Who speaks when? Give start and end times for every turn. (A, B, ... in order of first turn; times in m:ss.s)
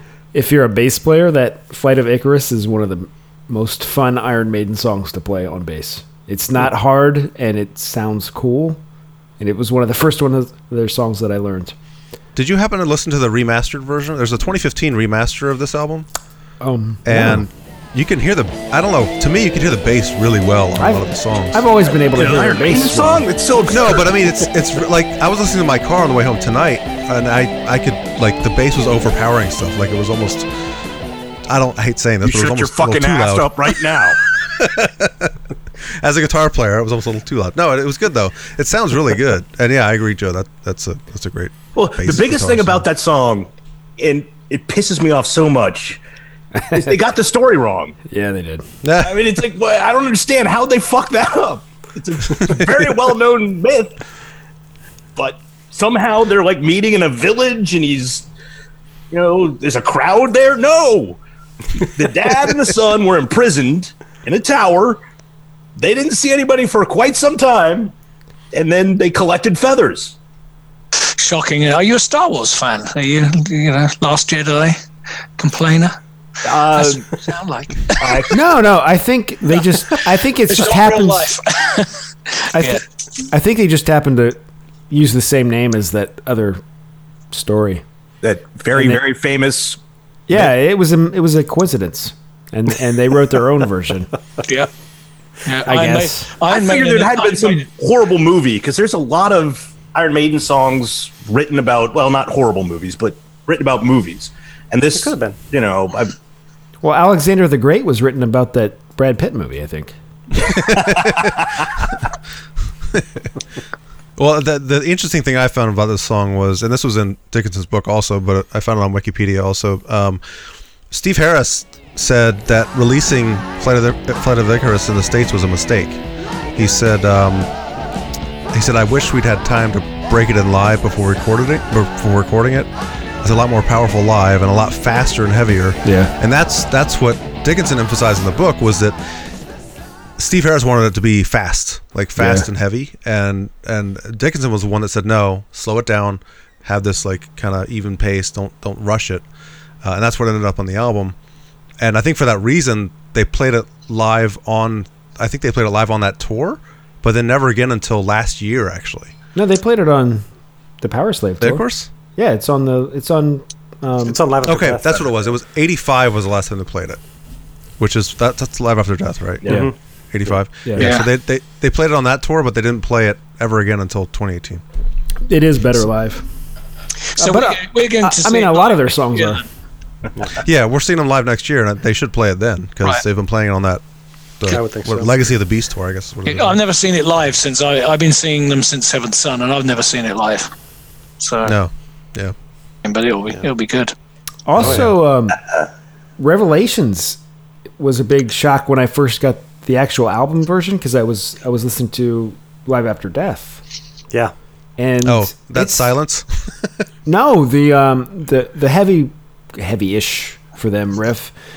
0:00.3-0:08.8 A
0:09.4-0:11.8 A
0:12.4-0:16.1 B
0:16.6-0:17.5 A
0:17.0-0:21.6 B
0:20.8-0:23.3 A
0:22.1-0:24.2 C
0:23.7-0:30.5 B
0:31.5-0:35.3 B
0:32.2-0:34.2 C
0:36.0-0:42.9 B
0:41.8-0:46.0 C
0:46.7-0:48.0 C
0:48.1-0:48.6 A
0:48.8-0:49.2 B
0:49.0-0:53.9 C
0:55.2-0:58.3 C
0:59.1-1:01.2 C
1:01.8-1:05.0 C
1:05.8-1:07.9 C
1:08.5-1:10.2 C
1:11.0-1:14.8 D
1:15.4-1:16.0 D
1:16.4-1:17.1 C
1:16.6-1:18.3 D
1:18.0-1:18.5 C
1:18.3-1:21.3 A
1:20.5-1:22.0 D
1:22.5-1:24.4 A
1:22.6-1:22.8 D
1:24.9-1:26.6 A
1:27.3-1:27.8 A
1:28.2-1:29.8 C
1:28.7-1:29.0 A
1:30.3-1:34.1 A
1:34.4-1:34.7 D
1:35.4-1:37.7 D
1:35.6-1:36.3 A
1:36.5-1:46.1 C
1:44.9-1:45.4 E
1:46.8-1:50.0 A
1:50.5-1:51.2 B
1:50.5-1:51.5 C
1:54.2-2:00.2 B
2:00.9-2:06.0 B
2:06.6-2:07.5 B
2:08.5-2:12.7 B
2:13.2-2:19.0 B
2:15.8-2:16.1 A
2:20.2-2:29.2 B
2:22.2-2:22.5 A
2:29.8-2:31.2 B
2:31.8-2:39.1 B
2:39.4-2:40.3 A
2:40.8-2:44.2 A
2:41.4-2:41.9 B
2:44.0-2:45.3 E
2:44.4-2:47.0 B
2:47.8-2:54.6 B
2:49.5-2:49.7 E
2:50.6-2:51.0 A
2:50.8-2:51.1 D
2:55.3-2:56.2 A
2:57.2-2:59.4 D
2:57.2-2:59.4 A
3:00.4-3:03.8 B
3:04.4-3:06.6 B
3:04.5-3:05.2 E
3:06.3-3:10.5 D
3:11.2-3:11.6 D
3:11.4-3:12.3 B
3:12.8-3:13.9 D
3:14.5-3:15.4 A
3:14.6-3:14.9 B
3:14.6-3:14.9 E
3:16.2-3:17.2 A
3:17.8-3:23.6 A
3:24.8-3:26.0 A
3:25.0-3:26.7 B
3:27.0-3:31.3 A